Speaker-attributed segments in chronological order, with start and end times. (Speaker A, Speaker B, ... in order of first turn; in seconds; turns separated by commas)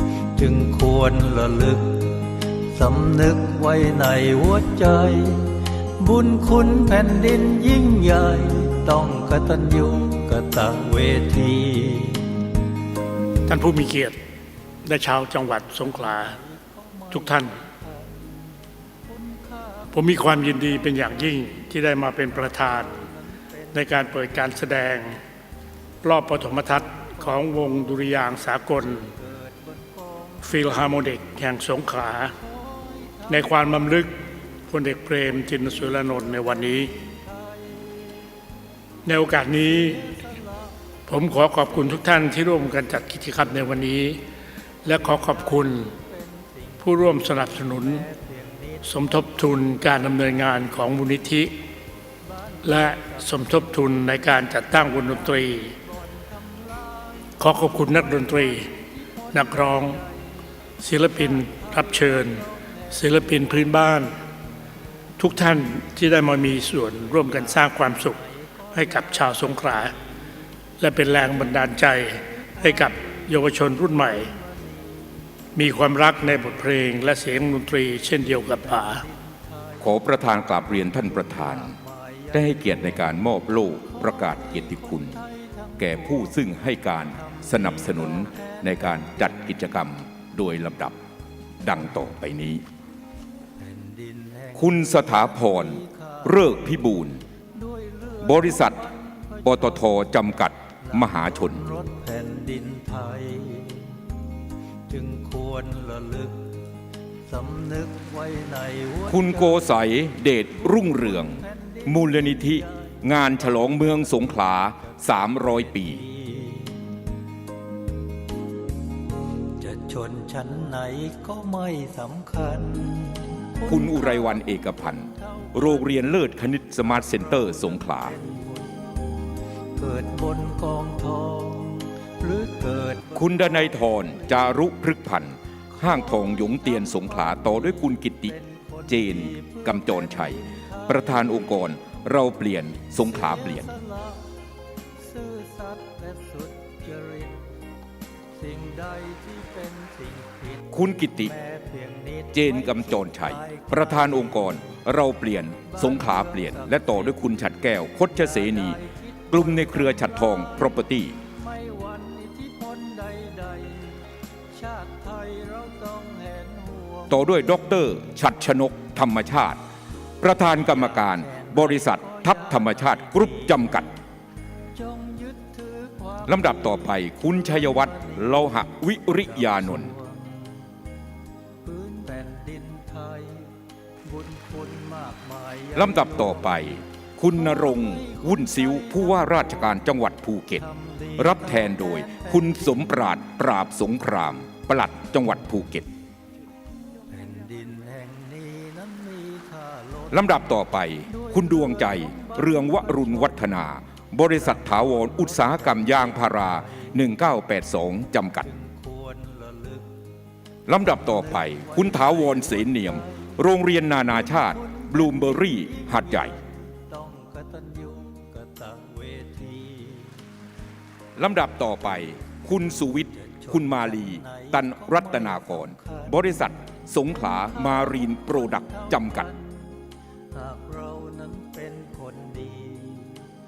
Speaker A: 0.3-12.5, Speaker B: 13.5-14.2, Speaker B: 14.8-16.4, Speaker A: 15.9-18.4, Speaker B: 17.1-17.6, Speaker A: 19.1-19.9, Speaker B: 19.9-22.9, Speaker A: 22.3-24.2, Speaker B: 23.7-25.2, Speaker B: 26.0-29.1, Speaker A: 29.0-30.6, Speaker B: 30.4-32.3, Speaker A: 32.5-33.7, Speaker B: 33.3-36.9, Speaker A: 36.1-36.5, Speaker B: 39.1-40.1, Speaker A: 39.7-40.7, Speaker B: 41.1-44.2, Speaker B: 44.8-46.0, Speaker A: 45.2-49.4, Speaker B: 46.8-48.1, Speaker B: 48.8-51.5, Speaker A: 52.3-60.2, Speaker B: 52.6-55.7, Speaker B: 57.4-58.7, Speaker B: 59.3-60.0, Speaker B: 60.8-64.1, Speaker A: 61.1-63.5, Speaker B: 65.2-68.2, Speaker A: 67.3-69.9, Speaker B: 68.7-70.0, Speaker B: 70.8-74.3, Speaker A: 72.6-73.2, Speaker A: 74.1-74.7, Speaker B: 75.6-79.0, Speaker A: 78.5-79.9, Speaker C: 79.8-81.8, Speaker A: 81.3-82.5, Speaker C: 82.3-85.2, Speaker A: 83.9-86.4, Speaker C: 85.8-91.0, Speaker A: 87.2-88.6, Speaker C: 91.6-92.6, Speaker A: 93.6-96.2, Speaker C: 94.5-97.2, Speaker A: 97.5-99.9, Speaker C: 98.2-98.9, Speaker C: 99.5-101.7, Speaker A: 100.9-104.0, Speaker A: 104.9-106.5, Speaker A: 107.3-109.7, Speaker C: 109.1-116.1, Speaker A: 111.3-112.7, Speaker A: 116.0-116.8, Speaker A: 119.6-124.5, Speaker C: 123.7-128.2, Speaker A: 127.0-128.9, Speaker A: 129.8-133.2, Speaker C: 133.1-138.4, Speaker A: 136.2-137.5, Speaker A: 138.3-141.4, Speaker C: 138.9-143.7, Speaker A: 143.1-144.2, Speaker A: 145.0-147.4, Speaker A: 148.4-150.7, Speaker C: 150.7-151.3, Speaker A: 151.2-154.5, Speaker C: 152.3-161.2, Speaker A: 155.7-157.2, Speaker A: 158.2-160.5, Speaker A: 161.4-167.2, Speaker C: 167.1-169.6, Speaker C: 170.2-173.9, Speaker A: 170.9-173.6, Speaker A: 174.7-176.9, Speaker C: 176.3-179.9, Speaker A: 177.6-178.3, Speaker A: 179.3-180.5, Speaker A: 181.6-186.6, Speaker C: 185.8-195.9, Speaker A: 187.6-188.9, Speaker A: 190.7-192.8, Speaker A: 197.1-200.4, Speaker C: 200.1-208.5, Speaker A: 201.1-203.4, Speaker A: 205.3-206.9, Speaker A: 208.5-209.9, Speaker C: 210.7-216.4, Speaker A: 211.1-213.3, Speaker A: 214.4-220.2, Speaker C: 221.2-229.3, Speaker A: 223.2-226.4, Speaker A: 228.5-229.4, Speaker A: 230.3-233.3